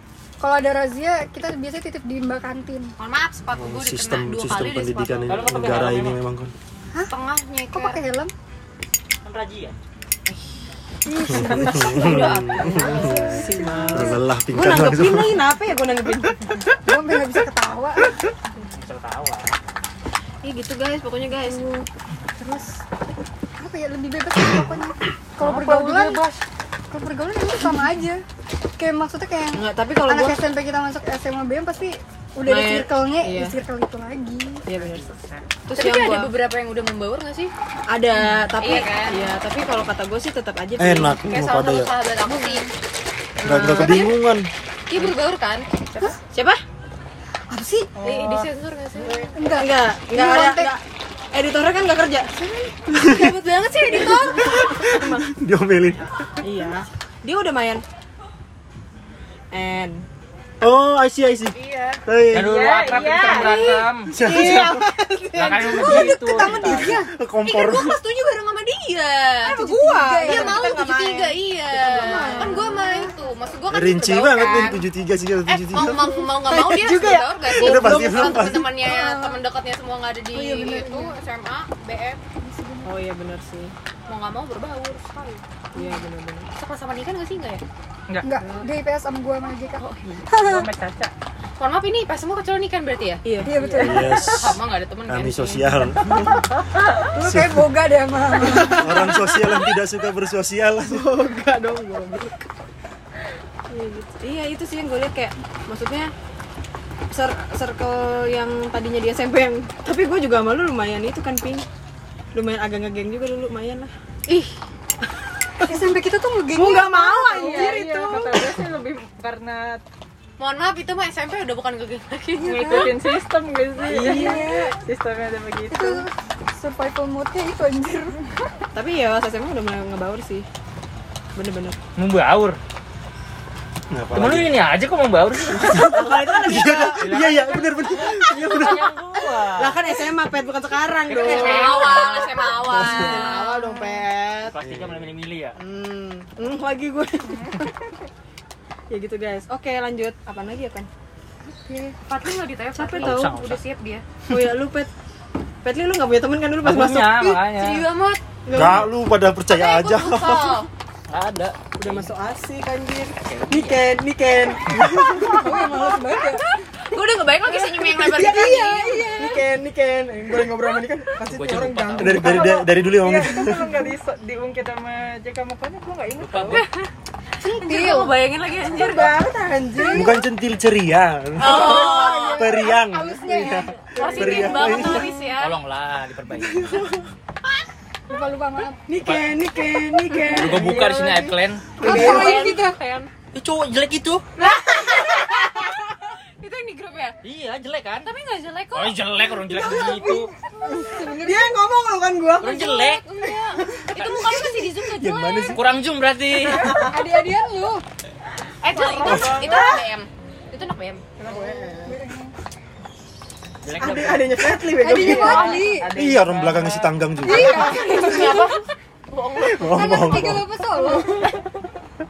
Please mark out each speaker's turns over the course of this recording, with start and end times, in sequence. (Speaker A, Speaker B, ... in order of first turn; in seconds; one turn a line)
Speaker A: 0.4-2.9
Speaker B: 3.0-5.5
Speaker C: 3.5-6.5
Speaker D: 5.3-6.2
Speaker B: 7.0-8.0
Speaker A: 7.7-8.3
Speaker D: 9.2-9.8
Speaker A: 11.1-14.2
Speaker C: 11.3-13.4
Speaker B: 11.5-13.5
Speaker E: 12.6-16.4
Speaker C: 13.9-15.4
Speaker A: 16.9-18.1
Speaker D: 18.8-19.6
Speaker E: 20.4-21.9
Speaker A: 21.5-21.8
Speaker A: 22.4-22.6
Speaker A: 23.6-26.3
Speaker A: 26.9-28.2
Speaker A: 28.8-34.6
Speaker E: 29.5-30.4
Speaker E: 32.5-33.6
Speaker E: 34.6-35.1
Speaker E: 35.7-36.3
Speaker B: 35.7-37.5
Speaker E: 37.9-41.2
Speaker B: 38.6-39.3
Speaker C: 40.8-41.9
Speaker B: 41.3-42.7
Speaker A: 42.3-42.6
Speaker E: 43.4-44.1
Speaker C: 43.4-44.5
Speaker B: 43.7-44.1
Speaker B: 44.9-46.2
Speaker E: 46.3-46.6
Speaker A: 47.5-48.0
Speaker E: 48.0-52.4
Speaker B: 48.0-49.3
Speaker A: 49.4-50.8
Speaker A: 52.4-52.7
Speaker C: 52.9-53.4
Speaker E: 52.9-55.2
Speaker B: 53.1-54.5
Speaker C: 54.5-56.3
Speaker E: 56.4-57.8
Speaker E: 59.5-60.0
Speaker C: 60.6-62.5
Speaker B: 61.6-62.0
Speaker D: 62.3-64.1
Speaker F: 62.4-63.8
Speaker B: 62.9-63.9
Speaker E: 63.2-66.2
Speaker C: 64.1-64.9
Speaker D: 65.4-67.0
Speaker A: 65.7-67.1
Speaker C: 66.4-68.0
Speaker B: 67.4-69.6
Speaker E: 69.4-73.1
Speaker A: 69.5-70.6
Speaker B: 70.2-74.8
Speaker A: 72.1-73.1
Speaker C: 73.7-76.0
Speaker E: 74.4-74.7
Speaker B: 75.5-82.2
Speaker E: 75.8-78.5
Speaker C: 77.5-78.7
Speaker A: 78.7-79.4
Speaker A: 80.3-81.1
Speaker A: 82.4-82.9
Speaker E: 82.8-83.7
Speaker B: 84.1-85.4
Speaker E: 85.8-86.5
Speaker B: 86.5-87.6
Speaker A: 88.2-89.8
Speaker E: 89.8-90.7
Speaker F: 90.5-91.1
Speaker B: 91.6-95.8
Speaker E: 93.2-94.3
Speaker A: 93.5-94.2
Speaker C: 93.8-96.5
Speaker A: 97.1-99.3
Speaker C: 97.2-97.7
Speaker E: 98.4-99.5
Speaker C: 98.7-101.1
Speaker E: 100.8-102.5
Speaker E: 103.7-106.1
Speaker E: 107.1-111.7
Speaker E: 112.3-113.9
Speaker B: 114.3-114.6
Speaker A: 115.6-118.5
Speaker E: 116.5-118.2
Speaker F: 117.4-119.8
Speaker B: 120.4-123.0
Speaker A: 122.4-123.0
Speaker F: 122.5-126.1
Speaker E: 123.8-124.6
Speaker A: 124.0-124.7
Speaker A: 125.7-128.2
Speaker E: 128.7-130.5
Speaker E: 131.3-131.8
Speaker D: 132.0-132.6
Speaker C: 133.9-134.5
Speaker D: 134.2-135.9
Speaker E: 135.6-137.0
Speaker C: 135.6-138.9
Speaker D: 137.0-139.8
Speaker E: 139.6-144.5
Speaker D: 141.1-142.3
Speaker B: 141.2-144.0
Speaker C: 142.7-143.3
Speaker D: 144.5-145.6
Speaker C: 144.6-145.1
Speaker E: 145.6-147.7
Speaker B: 147.3-147.6
Speaker E: 148.9-150.9
Speaker A: 151.7-151.9
Speaker B: 152.1-154.0
Speaker E: 152.8-153.3
Speaker D: 153.0-153.6
Speaker E: 154.3-154.9
Speaker E: 155.6-157.4
Speaker D: 156.6-157.8
Speaker B: 157.4-158.2
Speaker E: 158.5-158.9
Speaker C: 158.5-160.6
Speaker B: 159.5-160.7
Speaker D: 161.1-162.1
Speaker E: 161.8-166.0
Speaker D: 163.2-163.8
Speaker C: 164.7-165.3
Speaker A: 165.3-166.5
Speaker B: 166.2-169.2
Speaker E: 167.8-173.8
Speaker A: 167.9-169.4
Speaker D: 171.2-172.4
Speaker C: 172.0-173.8
Speaker F: 172.2-176.7
Speaker D: 176.2-176.7
Speaker A: 177.4-178.3
Speaker B: 177.5-179.2
Speaker E: 178.6-180.2
Speaker A: 179.7-180.2
Speaker C: 179.9-185.1
Speaker B: 181.4-182.5
Speaker A: 181.4-184.7
Speaker B: 183.9-185.5
Speaker E: 184.0-185.0
Speaker D: 185.2-186.9
Speaker A: 188.1-188.8
Speaker E: 188.9-192.4
Speaker D: 190.3-191.8
Speaker B: 190.3-190.6
Speaker C: 191.8-192.3
Speaker A: 191.8-192.8
Speaker B: 191.8-193.1
Speaker D: 193.3-194.2
Speaker E: 194.4-195.7
Speaker B: 194.4-197.2
Speaker D: 197.2-198.1
Speaker B: 198.0-199.0
Speaker D: 198.8-200.3
Speaker A: 199.4-201.5
Speaker E: 200.7-203.9
Speaker D: 202.4-203.0
Speaker B: 202.4-205.6
Speaker D: 204.0-204.4
Speaker C: 204.9-205.6
Speaker D: 205.5-206.8
Speaker E: 206.4-206.9
Speaker A: 206.8-207.8
Speaker B: 208.6-211.2
Speaker E: 208.8-209.8
Speaker C: 209.0-209.4
Speaker E: 211.2-212.0
Speaker A: 211.3-212.3
Speaker D: 213.7-214.6
Speaker E: 213.8-215.6
Speaker A: 214.7-215.9
Speaker F: 214.9-217.1
Speaker D: 215.1-215.5
Speaker C: 215.9-217.7
Speaker A: 217.2-218.6
Speaker B: 217.3-220.3
Speaker E: 217.9-218.3
Speaker C: 219.4-220.5
Speaker A: 219.7-221.3
Speaker E: 220.8-221.5